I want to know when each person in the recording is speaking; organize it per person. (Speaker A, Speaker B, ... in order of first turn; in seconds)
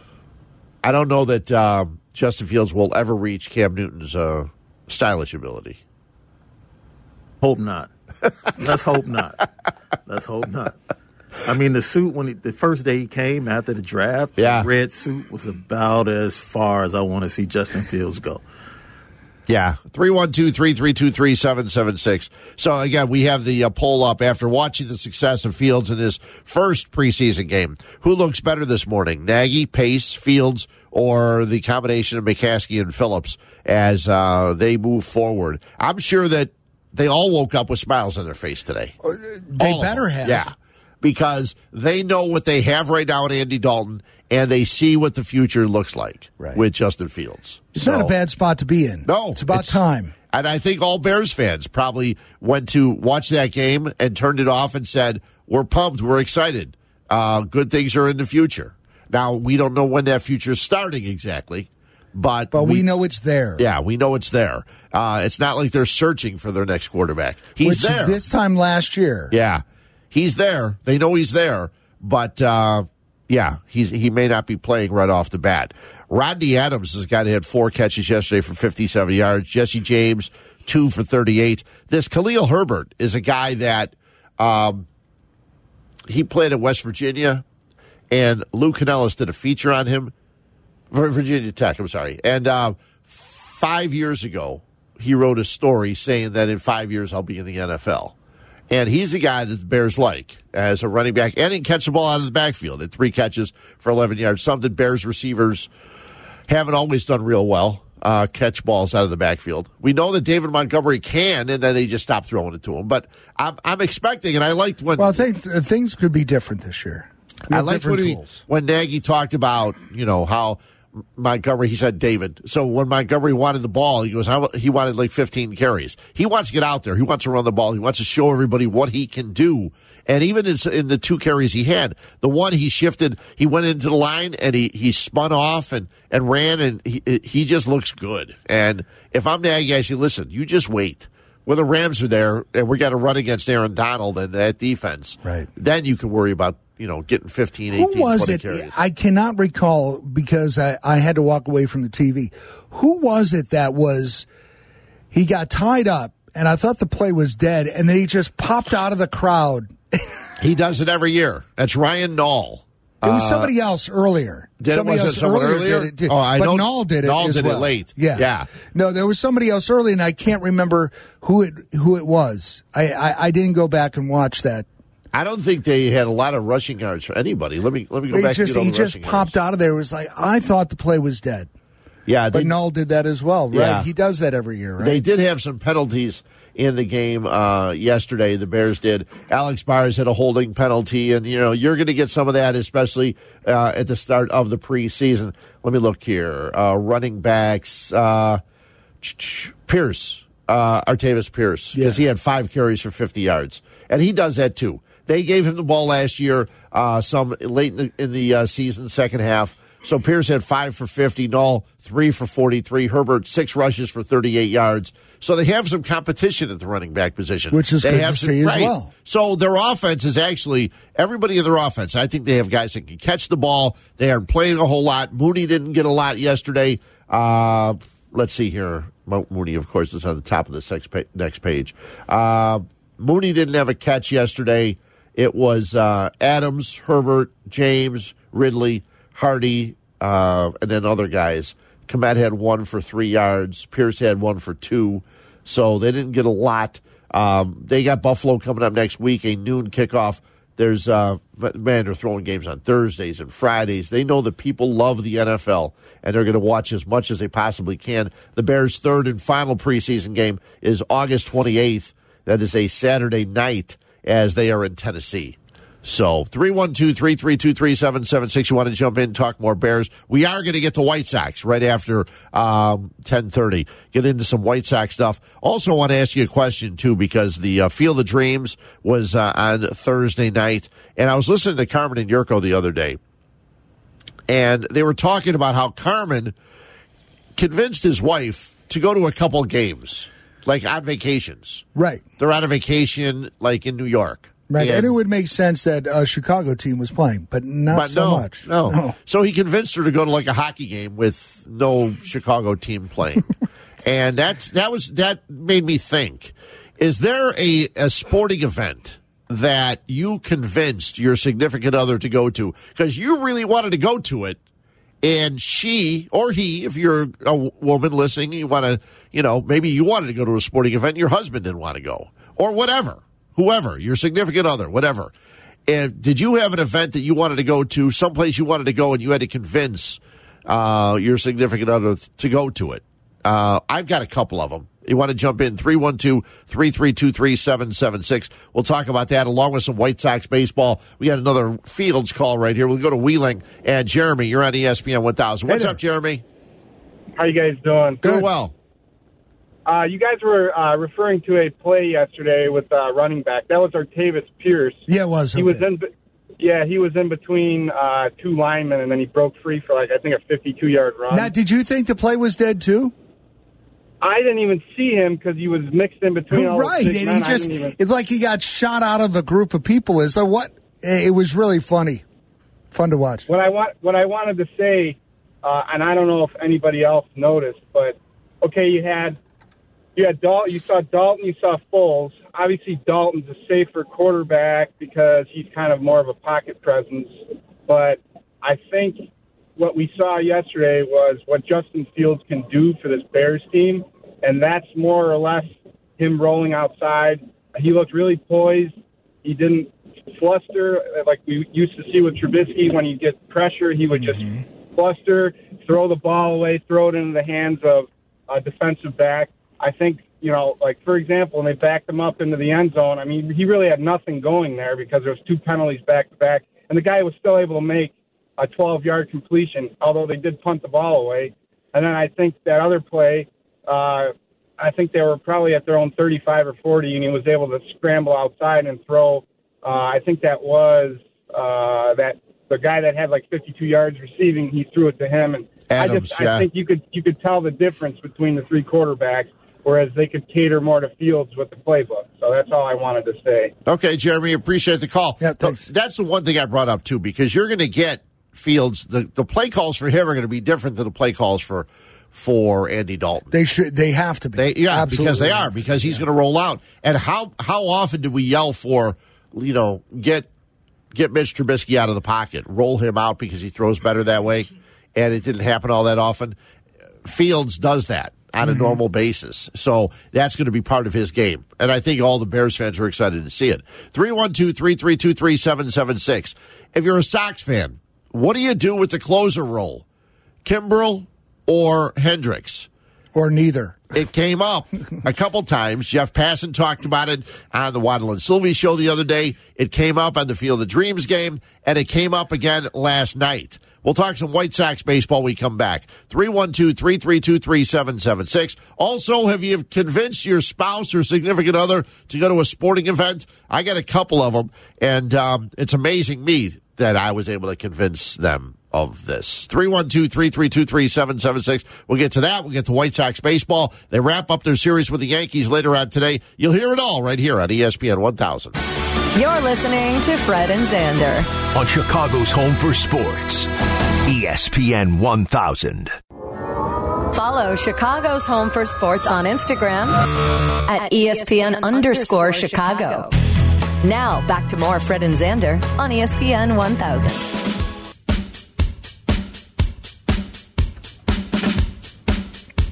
Speaker A: 0.8-5.8, 14.4-14.7, 19.5-39.0, 39.6-48.1, 49.0-62.9, 63.6-68.2, 69.3-84.9, 86.1-87.4, 88.1-90.1, 90.9-98.2, 98.7-105.7, 106.5-115.2, 117.5-148.8, 160.4-163.5, 164.6-168.5, 175.1-179.3, 182.1-182.5, 183.5-183.9, 184.8-198.4, 199.0-283.0, 284.3-286.4, 287.4-291.6, 292.2-295.0, 297.7-303.3, 303.8-314.4, 315.0-325.1, 325.7-346.2, 348.0-348.5, 435.7-436.5, 443.7-453.3, 454.4-460.3, 460.9-466.4, 467.0-479.9, 480.4-482.7, 483.9-518.6
Speaker B: 7.4-7.9, 8.6-9.5, 10.1-10.8, 11.4-18.4
Speaker C: 39.0-40.5, 47.7-50.1, 62.5-63.6, 67.6-69.3, 115.0-118.4, 145.2-145.5, 147.7-154.3, 155.1-160.1, 163.0-174.7, 178.1-181.5, 182.3-185.0, 201.8-202.0, 217.5-218.9, 291.8-292.0, 294.5-298.9, 345.5-345.8, 354.9-355.6, 361.1-362.9, 366.3-372.0, 372.7-373.3, 404.0-404.4, 445.2-445.7, 453.3-456.0, 468.4-468.7, 483.1-483.9
Speaker D: 347.2-348.1, 349.7-354.8, 355.4-355.9, 356.4-361.3, 364.0-367.8, 373.3-379.2, 380.0-443.5
Speaker E: 519.1-521.3, 527.1-530.0, 530.7-533.1, 533.8-537.3
Speaker F: 521.5-523.5, 524.1-526.0